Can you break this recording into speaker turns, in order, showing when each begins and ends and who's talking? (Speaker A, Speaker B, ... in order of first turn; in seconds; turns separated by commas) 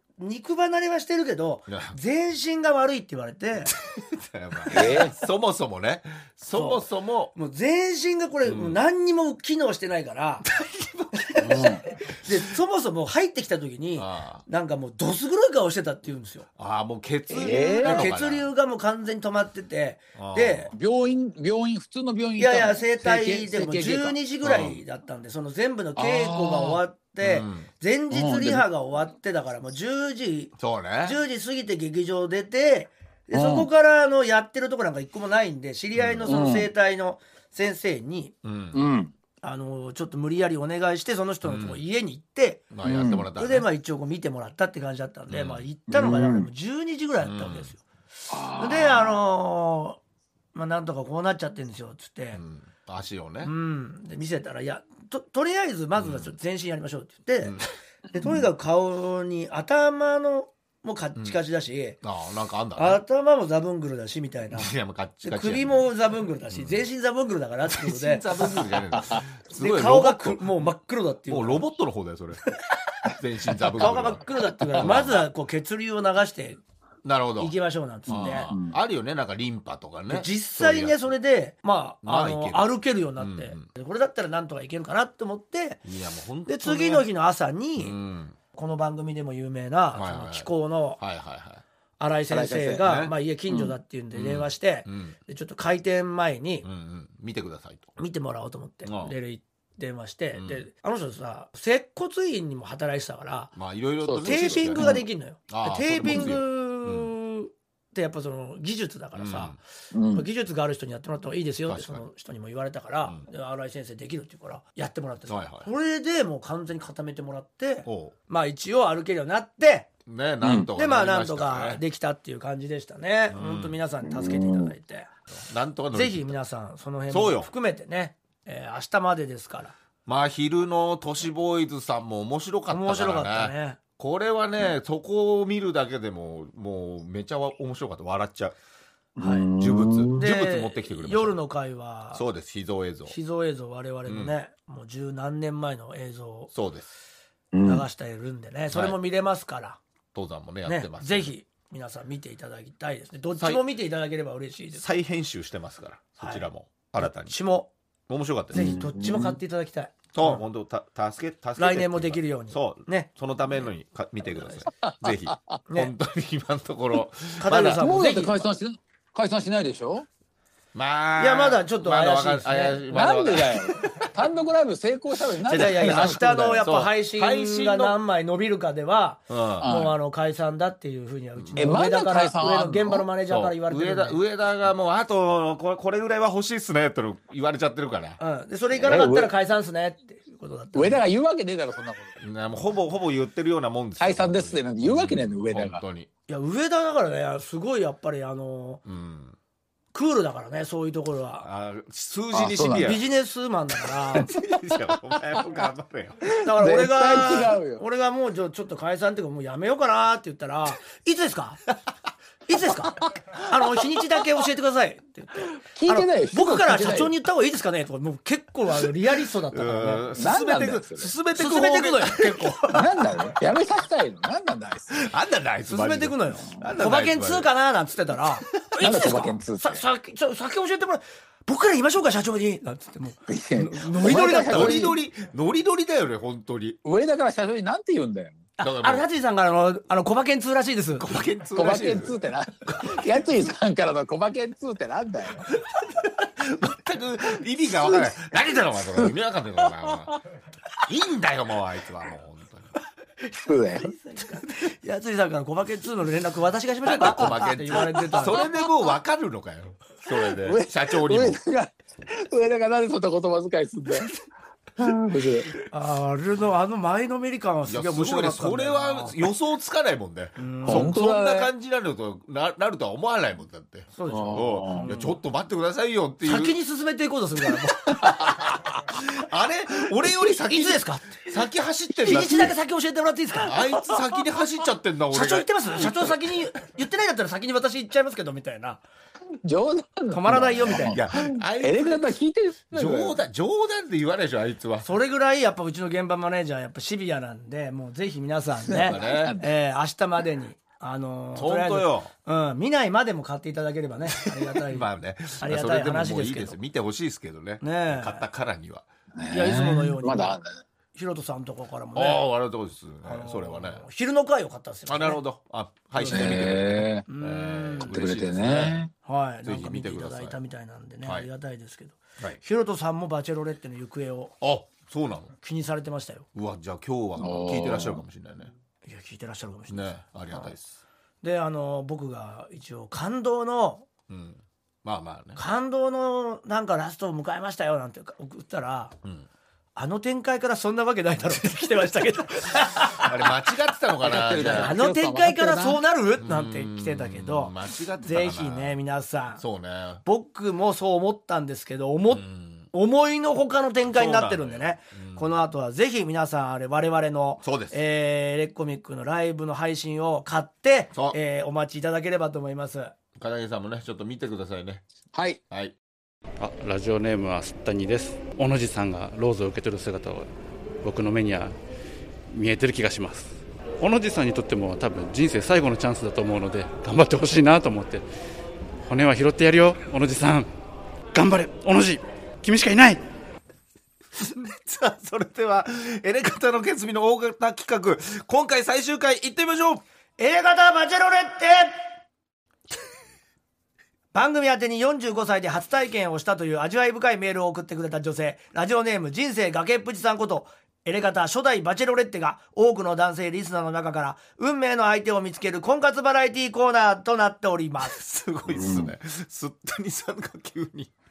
Speaker A: 0.2-3.7, Speaker B: 1.7-1.9, Speaker B: 4.0-7.3, Speaker A: 4.7-5.1, Speaker C: 4.7-5.1, Speaker A: 6.5-10.5, Speaker B: 8.5-8.8, Speaker B: 10.4-11.7, Speaker A: 11.3-16.5, Speaker C: 11.4-11.8, Speaker B: 14.0-14.4, Speaker B: 16.6-18.5, Speaker C: 17.3-18.1, Speaker A: 17.4-20.7, Speaker B: 20.1-20.7, Speaker C: 20.7-24.1, Speaker A: 22.4-38.3, Speaker B: 24.4-24.8, Speaker C: 25.9-26.8, Speaker B: 27.2-27.7, Speaker C: 28.1-28.6, Speaker B: 30.6-31.2, Speaker C: 33.3-33.7, Speaker B: 36.0-36.3, Speaker C: 36.2-36.7, Speaker B: 38.4-38.8, Speaker C: 38.7-39.1, Speaker A: 39.4-42.7, Speaker B: 41.4-41.8, Speaker B: 42.7-43.6, Speaker C: 42.8-43.3, Speaker A: 43.4-47.8, Speaker B: 45.3-45.6, Speaker C: 45.9-46.5, Speaker B: 47.2-47.7, Speaker C: 48.3-49.2, Speaker A: 48.6-50.0, Speaker A: 50.5-52.4, Speaker B: 52.4-53.5, Speaker A: 53.4-57.5, Speaker B: 56.0-56.3, Speaker B: 57.4-57.7, Speaker C: 58.1-58.4, Speaker A: 58.1-62.0, Speaker B: 62.0-63.0, Speaker A: 62.8-64.7, Speaker B: 64.5-65.8, Speaker A: 65.2-68.6, Speaker B: 66.5-66.8, Speaker B: 67.7-70.6, Speaker A: 69.5-71.6, Speaker B: 71.3-72.4, Speaker B: 73.1-74.2, Speaker A: 73.8-76.6, Speaker C: 74.6-74.9, Speaker B: 74.8-75.3, Speaker B: 77.0-77.5, Speaker A: 77.4-78.5, Speaker B: 78.1-81.1, Speaker C: 78.1-78.7, Speaker A: 80.1-85.8, Speaker B: 82.0-83.7, Speaker B: 85.8-87.0, Speaker A: 86.5-88.0, Speaker B: 87.8-88.3, Speaker A: 88.5-91.0, Speaker B: 89.9-91.6, Speaker A: 92.0-96.7, Speaker C: 92.3-92.9, Speaker B: 92.8-93.1, Speaker C: 93.5-93.7, Speaker B: 94.1-95.2, Speaker B: 96.6-97.9, Speaker A: 98.0-103.5, Speaker B: 98.8-99.1, Speaker B: 100.3-100.7, Speaker B: 103.5-105.0, Speaker C: 104.0-105.0, Speaker A: 104.2-109.5, Speaker B: 105.5-107.1, Speaker C: 106.1-106.3, Speaker B: 109.2-109.6, Speaker C: 109.9-110.2, Speaker A: 110.1-119.9, Speaker B: 111.7-112.0, Speaker B: 115.3-115.7, Speaker B: 117.8-118.1, Speaker B: 120.0-121.8, Speaker C: 120.4-120.7, Speaker A: 120.8-125.1, Speaker B: 123.3-123.8, Speaker C: 124.0-124.7, Speaker B: 125.3-126.3, Speaker A: 125.9-129.7, Speaker B: 127.1-127.5, Speaker B: 130.1-138.5, Speaker A: 132.7-133.8, Speaker C: 139.2-140.2, Speaker B: 139.6-141.4, Speaker A: 140.2-142.2, Speaker B: 142.1-143.1, Speaker A: 143.1-146.5, Speaker B: 144.1-144.3, Speaker B: 146.5-146.9, Speaker C: 147.5-147.8, Speaker A: 147.6-149.8, Speaker B: 148.7-149.0, Speaker B: 150.1-151.3, Speaker A: 150.7-154.8, Speaker B: 154.7-157.3, Speaker A: 156.2-156.4, Speaker A: 157.0-157.7, Speaker B: 158.1-158.6, Speaker C: 158.5-159.4, Speaker A: 158.5-160.4, Speaker B: 160.1-167.8, Speaker A: 161.6-163.7, Speaker C: 164.8-165.6, Speaker A: 167.4-168.4, Speaker C: 167.8-170.1, Speaker B: 170.7-174.1, Speaker A: 171.2-172.8, Speaker C: 172.9-176.6, Speaker B: 175.5-177.9, Speaker A: 175.5-184.2, Speaker B: 179.3-179.7, Speaker C: 179.6-179.9, Speaker B: 181.4-181.7, Speaker C: 181.6-183.0, Speaker B: 183.3-188.2, Speaker A: 188.2-191.0, Speaker C: 188.8-189.3, Speaker C: 190.7-192.2, Speaker B: 192.2-196.1, Speaker C: 194.0-195.8, Speaker A: 196.3-198.8, Speaker B: 198.8-199.3, Speaker A: 199.9-201.5, Speaker B: 201.4-203.0, Speaker C: 202.3-203.0, Speaker A: 202.8-204.3, Speaker B: 204.2-206.2, Speaker A: 206.4-211.6, Speaker C: 206.5-207.8, Speaker A: 212.5-220.0, Speaker C: 215.7-217.1, Speaker B: 219.5-222.8, Speaker C: 220.1-221.1, Speaker A: 221.3-222.8, Speaker C: 222.7-225.0, Speaker B: 224.9-227.5, Speaker A: 225.7-234.9, Speaker C: 228.8-229.8, Speaker C: 233.3-234.9, Speaker B: 234.1-236.8, Speaker C: 236.8-238.4, Speaker A: 238.6-241.0, Speaker B: 238.6-239.0, Speaker B: 241.0-242.1, Speaker C: 241.5-245.4, Speaker B: 242.7-243.0, Speaker B: 245.5-250.2, Speaker B: 250.8-252.7, Speaker C: 253.4-253.9, Speaker A: 253.7-258.4, Speaker B: 256.9-261.4, Speaker C: 257.0-257.3, Speaker C: 260.3-264.1, Speaker C: 264.8-265.5, Speaker A: 265.7-269.1, Speaker B: 267.7-276.6, Speaker A: 270.4-270.9, Speaker C: 270.6-271.5, Speaker A: 273.9-275.1, Speaker C: 274.1-274.9, Speaker A: 276.2-278.4, Speaker B: 278.0-282.6, Speaker A: 280.4-281.3, Speaker A: 282.0-283.9, Speaker B: 283.4-286.4, Speaker A: 285.1-288.8, Speaker C: 289.4-293.2, Speaker A: 290.1-291.0, Speaker B: 290.9-292.0, Speaker B: 292.7-294.9, Speaker A: 294.8-304.9, Speaker C: 298.7-299.5, Speaker B: 298.8-299.3, Speaker B: 301.4-302.1, Speaker B: 304.6-308.9, Speaker A: 305.4-306.6, Speaker A: 307.6-308.2, Speaker C: 309.1-310.5, Speaker A: 309.3-310.4, Speaker A: 310.9-312.2, Speaker B: 311.9-313.8, Speaker A: 313.0-315.2, Speaker B: 314.9-318.8, Speaker A: 315.9-316.5, Speaker C: 316.1-317.0, Speaker A: 317.1-317.9, Speaker C: 317.9-318.9, Speaker A: 319.0-324.3, Speaker B: 319.4-320.4, Speaker B: 324.4-325.3, Speaker A: 325.4-326.2, Speaker B: 326.3-328.5, Speaker C: 327.2-328.0, Speaker A: 328.8-330.5, Speaker B: 329.7-330.8, Speaker A: 331.2-333.9, Speaker B: 334.1-335.4, Speaker A: 335.3-338.9, Speaker A: 339.8-343.1, Speaker B: 343.0-344.7, Speaker C: 344.0-345.8, Speaker A: 344.4-349.4, Speaker B: 346.2-348.8, Speaker B: 349.4-350.0, Speaker A: 350.0-362.9, Speaker B: 352.1-352.7, Speaker B: 353.9-355.3, Speaker B: 357.4-357.8, Speaker B: 363.2-364.8, Speaker C: 365.1-365.4, Speaker D: 366.4-370.3, Speaker D: 370.8-371.5, Speaker D: 372.3-378.0, Speaker D: 378.8-380.5, Speaker D: 381.1-383.0, Speaker B: 384.2-389.8, Speaker A: 390.2-391.7, Speaker A: 394.1-408.0, Speaker B: 407.8-410.9, Speaker C: 408.5-408.9